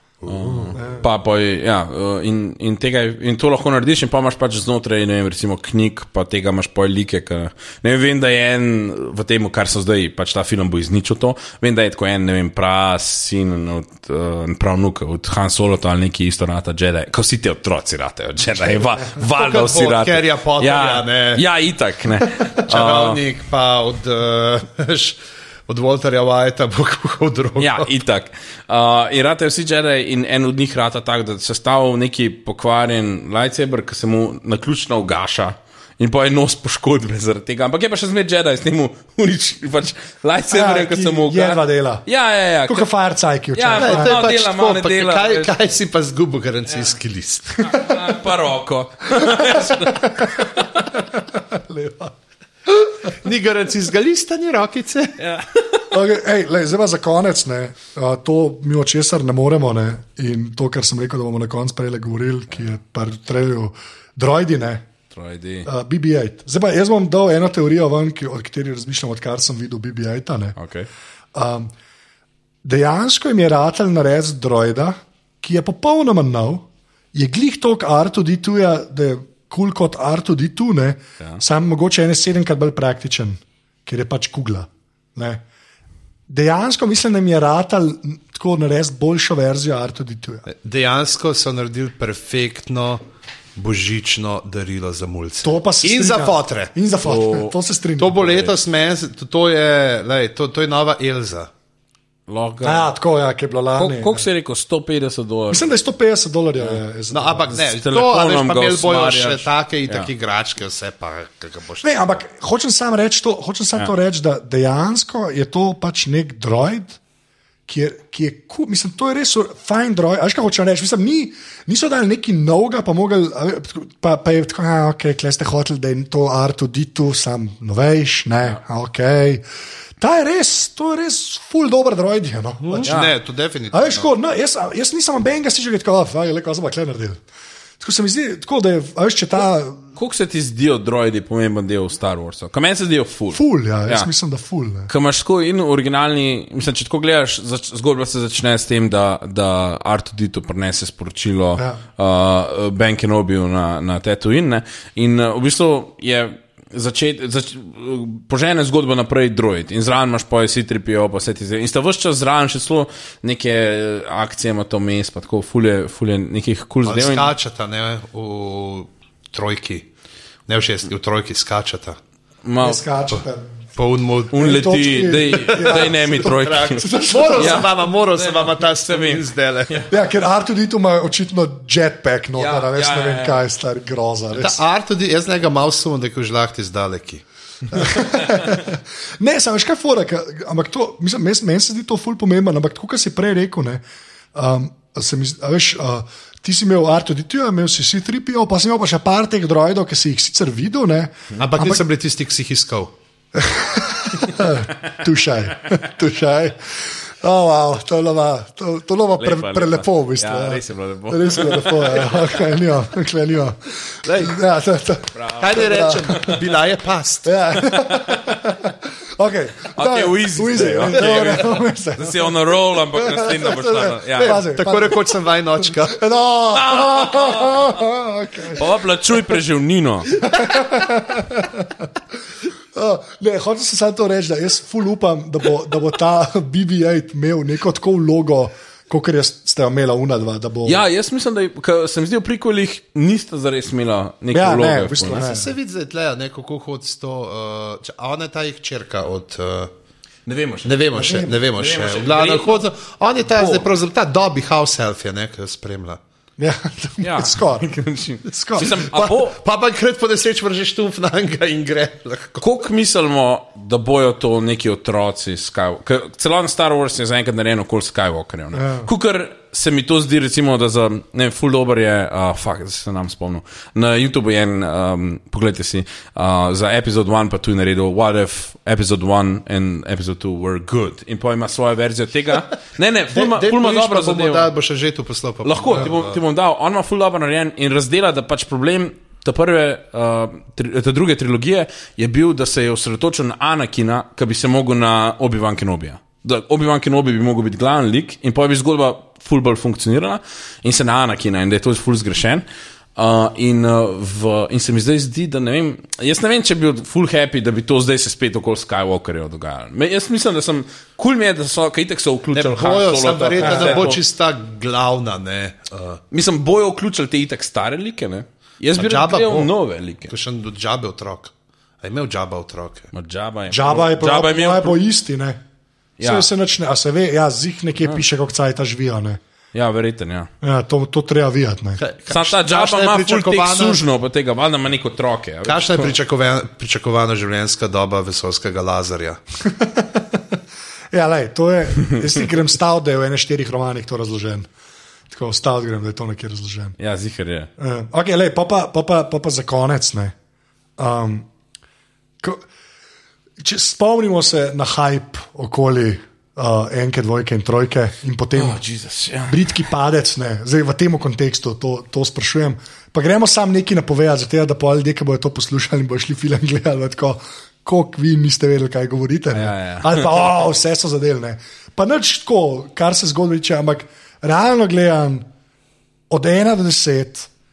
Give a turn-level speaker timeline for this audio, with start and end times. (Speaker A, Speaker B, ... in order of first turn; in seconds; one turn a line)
Speaker A: 0.2-0.8
Speaker B: 0.3-23.2
Speaker C: 0.8-1.1
Speaker A: 19.2-21.4
Speaker A: 22.5-27.9
Speaker B: 27.6-42.9
Speaker C: 40.5-42.1
Speaker C: 42.7-44.2
Speaker B: 43.5-45.5
Speaker A: 43.8-47.7
Speaker B: 47.6-50.9
Speaker C: 49.2-52.1
Speaker A: 53.1-55.1
Speaker B: 55.2-55.9
Speaker C: 55.9-64.9
Speaker B: 65.1-65.7
Speaker C: 65.7-70.6
Speaker B: 70.6-70.9
Speaker C: 71.3-71.7
Speaker C: 72.6-85.4
Speaker C: 86.3-90.5
Speaker A: 90.5-93.0
Speaker A: 93.6-96.7
Speaker C: 95.4-98.4
Speaker B: 97.0-97.5
Speaker A: 98.0-101.5
Speaker B: 102.3-102.9
Speaker C: 102.6-104.2
Speaker B: 103.8-105.7
Speaker C: 105.5-107.7
Speaker A: 107.1-112.2
Speaker B: 107.6-110.1
Speaker C: 111.8-117.0
Speaker C: 117.7-129.4
Speaker C: 130.0-133.0
Speaker A: 132.6-134.1
Speaker B: 132.8-133.1
Speaker C: 133.7-137.2
Speaker C: 137.8-139.8
Speaker B: 140.0-144.1
Speaker C: 143.3-144.9
Speaker B: 144.9-167.3
Speaker A: 166.9-169.9
Speaker A: 170.5-172.0
Speaker B: 172.4-172.8
Speaker C: 172.6-173.6
Speaker A: 173.8-174.5
Speaker C: 174.3-177.7
Speaker B: 174.3-179.9
Speaker A: 175.4-179.9
Speaker C: 179.9-184.6
Speaker B: 182.4-183.4
Speaker A: 184.3-187.2
Speaker C: 187.7-193.8
Speaker C: 194.3-201.8
Speaker A: 201.4-202.9
Speaker C: 203.3-216.3
Speaker B: 209.2-212.4
Speaker A: 214.1-214.4
Speaker B: 215.2-215.6
Speaker A: 215.4-217.3
Speaker C: 217.2-222.3
Speaker B: 217.6-218.4
Speaker B: 219.8-224.4
Speaker A: 221.0-221.4
Speaker C: 223.0-228.7
Speaker A: 224.1-226.0
Speaker B: 226.6-227.6
Speaker B: 228.5-230.1
Speaker C: 230.2-231.9
Speaker C: 232.7-240.8
Speaker B: 240.7-245.3
Speaker C: 244.3-245.5
Speaker A: 245.1-249.7
Speaker B: 250.3-250.7
Speaker A: 250.7-256.0
Speaker C: 250.9-251.4
Speaker B: 251.5-252.6
Speaker B: 253.4-253.6
Speaker C: 256.4-257.7
Speaker B: 257.0-259.4
Speaker C: 258.3-258.8
Speaker A: 258.6-262.5
Speaker B: 262.4-284.5
Speaker C: 268.5-268.9
Speaker A: 283.1-286.2
Speaker B: 285.4-302.4
Speaker B: 303.0-314.0
Speaker A: 312.4-316.0
Speaker C: 313.4-313.9
Speaker B: 316.1-320.1
Speaker A: 318.8-319.5
Speaker A: 320.1-322.9
Speaker B: 322.9-324.8
Speaker C: 323.5-325.4
Speaker B: 326.0-326.3
Speaker C: 326.0-329.2
Speaker B: 329.5-330.3
Speaker C: 330.4-331.8
Speaker A: 331.8-333.8
Speaker B: 332.1-335.9
Speaker A: 335.4-339.2
Speaker C: 339.4-340.4
Speaker C: 340.9-344.5
Speaker C: 345.1-346.8
Speaker B: 346.8-347.5
Speaker C: 347.6-350.1
Speaker C: 350.8-351.3
Speaker C: 353.4-358.6
Speaker B: 358.4-359.6
Speaker C: 359.3-375.3
Speaker B: 369.3-370.1
Speaker C: 376.1-377.3